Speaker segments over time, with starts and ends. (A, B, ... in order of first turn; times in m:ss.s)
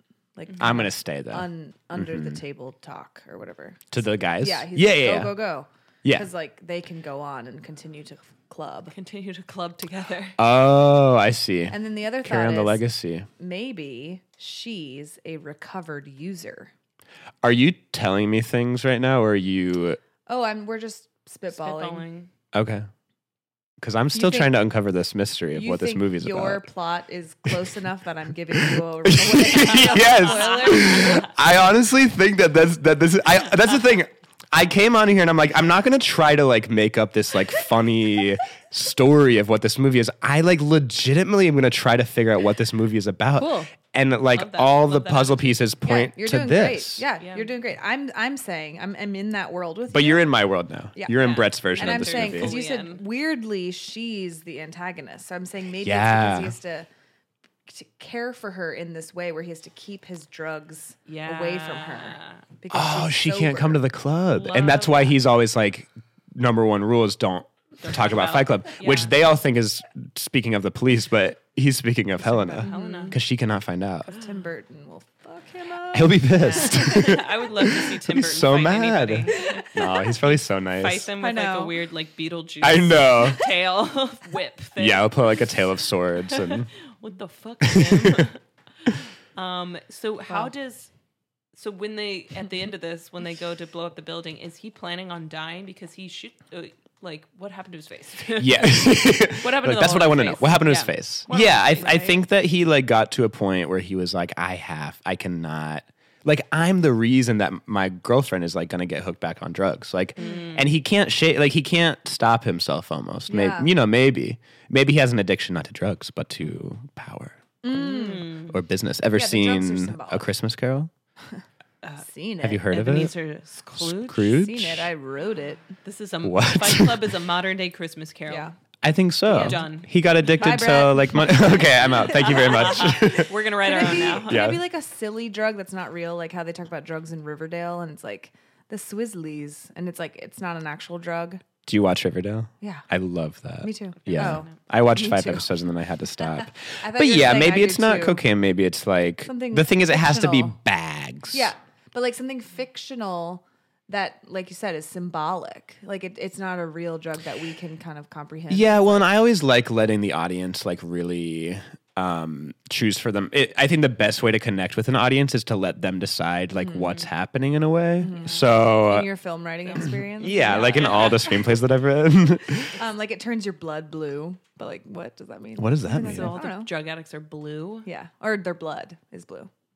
0:00.4-0:08.9 A
0:00.6-0:02.4 B
0:03.9-0:05.4 B
0:08.9-0:10.4 C
0:10.4-0:13.3 B
0:11.7-0:12.8 A
0:13.4-0:16.7 A
0:17.4-0:20.0 B
0:20.3-0:22.0 A
0:21.5-0:22.3 C
0:22.5-0:22.9 B
0:23.8-0:26.6 B
0:24.1-0:24.5 A
0:25.5-0:31.2 A
0:28.6-0:47.0 B
0:29.7-0:31.3 C
0:43.4-0:43.7 A
0:44.3-0:45.7 C
0:45.8-0:50.3 A
0:47.2-0:47.5 C
0:49.9-0:52.6 B
0:51.0-0:56.9 A
0:51.1-0:53.0 C
0:55.8-0:56.6 B
0:57.7-1:03.8 A
1:01.1-1:02.4 C
1:02.7-1:14.1 B
1:04.3-1:05.2 C
1:07.8-1:09.1 C
1:12.2-1:13.2 A
1:12.6-1:13.2 C
1:14.1-1:17.3 A
1:15.9-1:21.1 B
1:16.4-1:19.7 C
1:19.3-1:20.1 A
1:20.7-1:25.3 C
1:21.2-1:21.8 A
1:22.6-1:23.4 B
1:24.8-1:26.7 B
1:26.3-1:30.9 C
1:27.6-1:28.3 B
1:31.5-1:42.2 C
1:38.4-1:57.4 B
1:50.2-1:50.7 C
1:53.3-1:53.7 A
1:57.6-1:58.3 A
1:57.7-1:58.6 C
1:58.5-2:00.9 B
1:59.1-2:00.3 A
2:02.0-2:02.7 A
2:02.4-2:03.1 B
2:02.7-2:04.4 C
2:03.8-2:04.9 B
2:04.3-2:05.7 A
2:05.8-2:08.5 C
2:06.2-2:07.1 B
2:08.3-2:08.5 A
2:08.8-2:13.3 B
2:09.3-2:09.6 A
2:09.3-2:09.9 C
2:10.3-2:21.4 A
2:11.3-2:14.5 C
2:14.1-2:14.6 B
2:21.7-2:31.5 B
2:22.6-2:22.9 A
2:23.6-2:25.5 A
2:24.1-2:24.6 C
2:26.8-2:28.2 A
2:29.3-2:30.6 A
2:31.3-2:39.1 A
2:38.5-2:49.1 B
2:48.0-2:51.4 A
2:49.6-2:51.4 C
2:49.8-2:52.7 B
2:52.5-2:56.7 A
2:55.6-2:56.3 B
2:55.9-2:57.9 C
2:57.9-2:59.5 A